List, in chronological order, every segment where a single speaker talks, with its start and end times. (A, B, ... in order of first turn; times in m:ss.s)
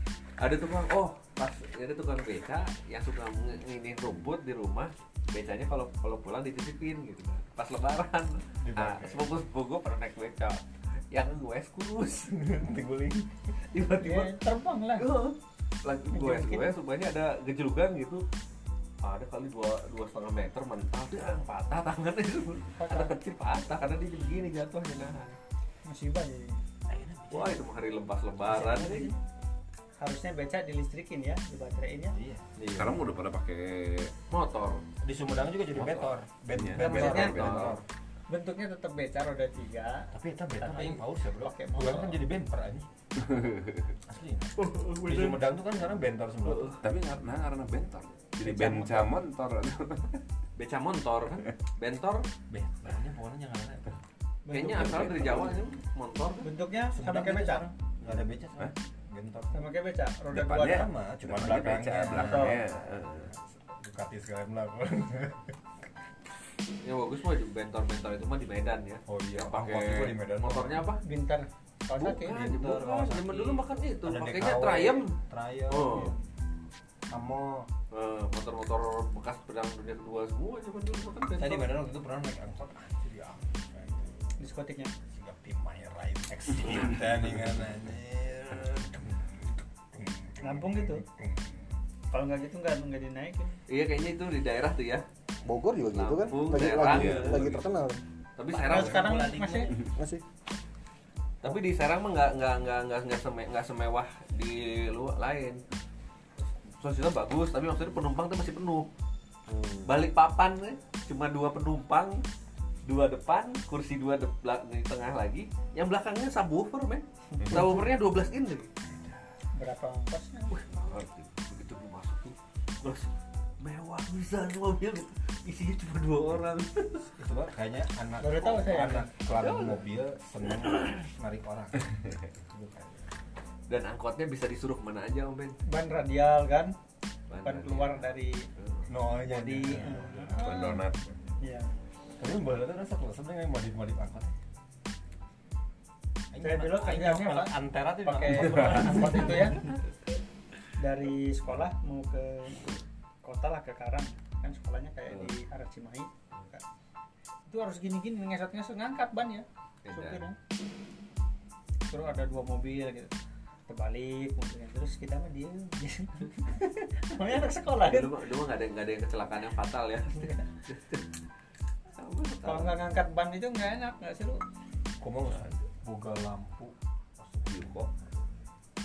0:00.4-0:12.3 A
0:08.6-0:09.4 B
0:12.2-0:13.7 B
0:13.7-0:18.2 A
0:14.0-0:15.1 C
0:16.1-0:16.7 C
0:19.0-0:25.4 A
0:22.7-0:23.2 C
0:25.8-0:26.6 C
0:26.9-0:27.6 B
0:27.3-0:29.1 A
0:28.4-0:29.2 B
0:30.0-0:32.2 C
0:32.1-0:32.6 B
0:32.6-0:32.9 A
0:32.7-0:34.1 D
0:34.3-0:34.8 A
0:35.0-0:37.8 B
0:35.7-0:37.8 D
0:36.8-0:37.8 A
0:36.8-0:37.3 C
0:38.3-0:42.2 C
0:40.1-0:42.9 B
0:43.3-0:43.9 D
0:44.0-0:46.8 B
0:44.6-0:45.4 A
0:46.4-0:46.8 A
0:46.8-0:50.2 D
0:48.4-0:49.1 C
0:50.6-0:52.3 A
0:52.5-0:54.0 B
0:54.5-0:55.0 C
0:54.5-0:56.5 A
0:54.6-0:55.7 B
0:54.8-0:55.6 D
0:56.4-0:57.7 C
0:56.9-0:59.7 B
0:59.5-1:00.9 C
1:00.3-1:03.3 D
1:00.7-1:02.6 B
1:02.1-1:02.6 C
1:03.2-1:05.6 B
1:06.8-1:11.0 A
1:09.1-1:10.9 B
1:11.0-1:12.4 C
1:12.0-1:15.1 A
1:12.2-1:16.2 B
1:15.7-1:16.1 A
1:15.9-1:16.2 C
1:17.1-1:17.7 B
1:17.9-1:21.7 A
1:21.4-1:24.4 B
1:24.4-1:24.9 C
1:25.1-1:31.8 B
1:30.4-1:31.0 C
1:32.1-1:33.6 C
1:33.7-1:35.0 A
1:35.4-1:38.0 E
1:35.9-1:37.5 A
1:36.8-1:37.8 D
1:38.4-1:39.7 A
1:38.5-1:39.7 C
1:39.9-1:40.2 E
1:41.4-1:45.6 A
1:46.8-1:48.9 A
1:49.5-1:50.0 E
1:49.8-1:52.2 A
1:52.8-1:58.7 A
1:59.6-2:00.6 C
2:00.5-2:07.1 A
2:07.1-2:13.1 B
2:08.2-2:09.1 C
2:09.4-2:09.8 A
2:10.6-2:10.9 A
2:13.7-2:15.6 A
2:15.6-2:16.7 C
2:17.3-2:18.9 A
2:17.4-2:18.4 C
2:18.9-2:20.5 B
2:19.3-2:20.8 C
2:20.3-2:21.2 D
2:21.4-2:21.7 C
2:22.1-2:24.3 B
2:26.3-2:29.6 B
2:26.4-2:29.7 C
2:29.0-2:29.8 A
2:30.8-2:32.6 C
2:33.2-2:36.6 C
2:37.5-2:40.4 C
2:39.8-2:40.3 A
2:41.9-2:43.1 C
2:43.7-2:48.1 C
2:47.8-2:51.1 A
2:50.1-2:50.4 C
2:51.9-2:52.8 A
2:52.4-2:54.4 C
2:55.0-2:58.4 B